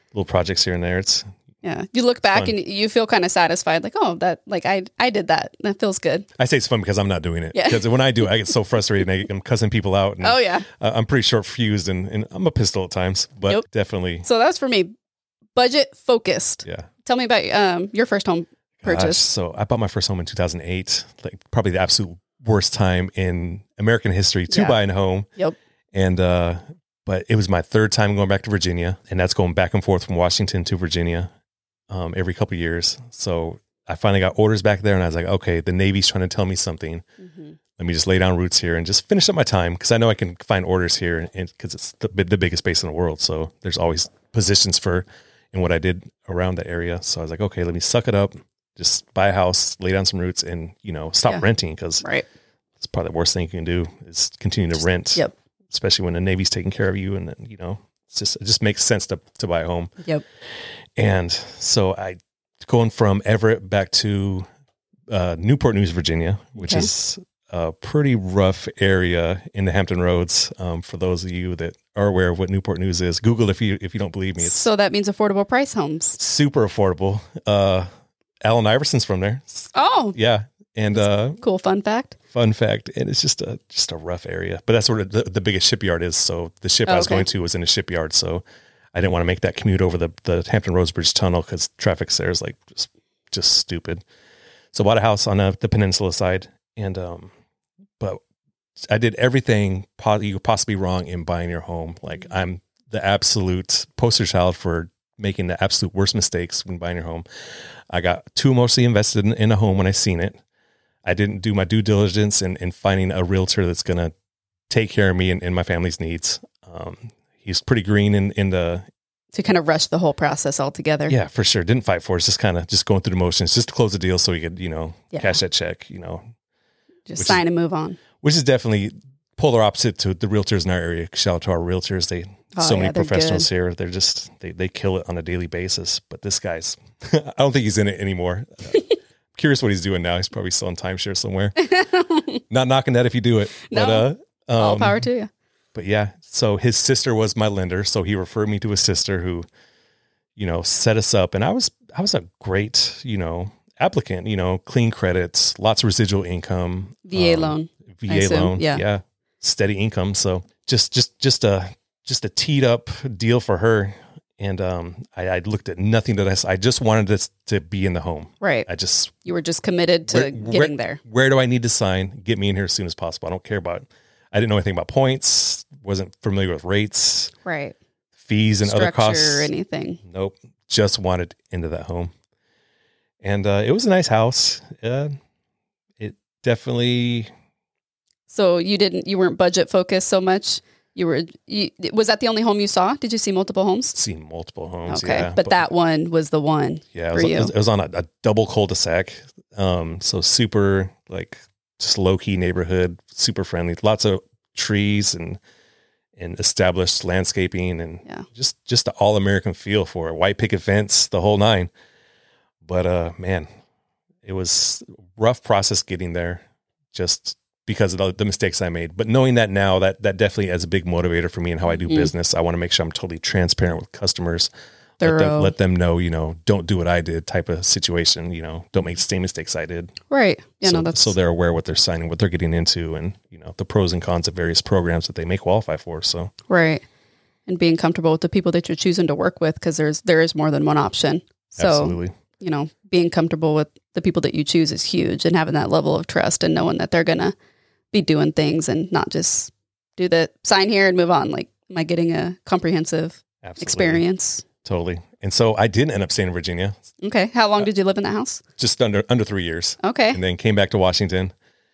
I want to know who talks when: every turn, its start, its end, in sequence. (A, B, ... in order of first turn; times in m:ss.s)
0:00.1-0:01.3 A
0:01.6-0:06.2 B
0:02.3-0:02.5 A
0:06.4-0:14.2 A
0:07.5-0:07.8 B
0:10.2-0:10.6 B
0:14.2-0:14.9 B
0:15.5-0:19.2 B
0:18.8-0:25.3 A
0:24.5-0:24.8 B
0:25.9-0:31.3 A
0:31.9-0:37.0 A
0:37.2-0:37.5 B
0:37.8-0:52.0 A
0:52.8-0:59.9 A
1:01.0-1:04.4 A
1:05.1-1:14.7 A
1:06.6-1:06.9 B
1:14.4-1:16.2 B
1:16.2-1:17.9 A
1:18.4-1:21.4 A
1:19.7-1:20.2 B
1:21.4-1:22.2 B
1:22.3-1:28.4 A
1:26.9-1:27.2 B
1:28.9-1:34.0 A
1:34.7-1:37.3 A
1:38.8-1:47.2 A
1:47.9-1:50.4 A
1:51.0-1:54.1 A
1:54.7-1:58.8 A
1:59.3-2:01.1 B
2:01.1-2:06.2 A
2:05.1-2:05.4 B
2:07.1-2:08.0 B
2:07.2-2:07.4 A
2:08.2-2:18.8 A
2:12.5-2:13.5 B
2:19.3-2:21.6 A
2:21.6-2:22.4 B
2:22.5-2:25.0 A
2:23.6-2:25.3 B
2:25.7-2:29.4 A
2:30.4-2:49.2 A
2:37.0-2:38.8 B
2:48.4-2:48.7 B
2:49.2-2:51.0 B
2:50.1-2:57.3 A
2:57.4-2:57.7 B
2:58.2-2:59.5 A
2:58.6-3:00.0 B
3:00.0-3:02.1 A
3:03.2-3:05.1 A
3:06.0-3:07.3 A
3:08.3-3:14.0 B
3:13.9-3:15.6 A
3:14.9-3:17.5 B
3:16.9-3:25.4 A
3:26.2-3:31.7 A
3:32.6-3:33.5 A
3:34.2-3:44.5 A
3:41.7-3:42.1 B
3:45.0-3:45.5 B
3:45.0-3:49.9 A
3:50.1-3:51.1 B
3:50.6-3:56.3 A
3:56.5-3:56.8 B
3:57.5-4:07.3 B
4:01.6-4:02.1 A
4:07.9-4:14.4 B
4:13.4-4:14.0 A
4:14.6-4:16.8 A
4:17.0-4:18.4 B
4:18.6-4:21.3 A
4:19.8-4:20.2 B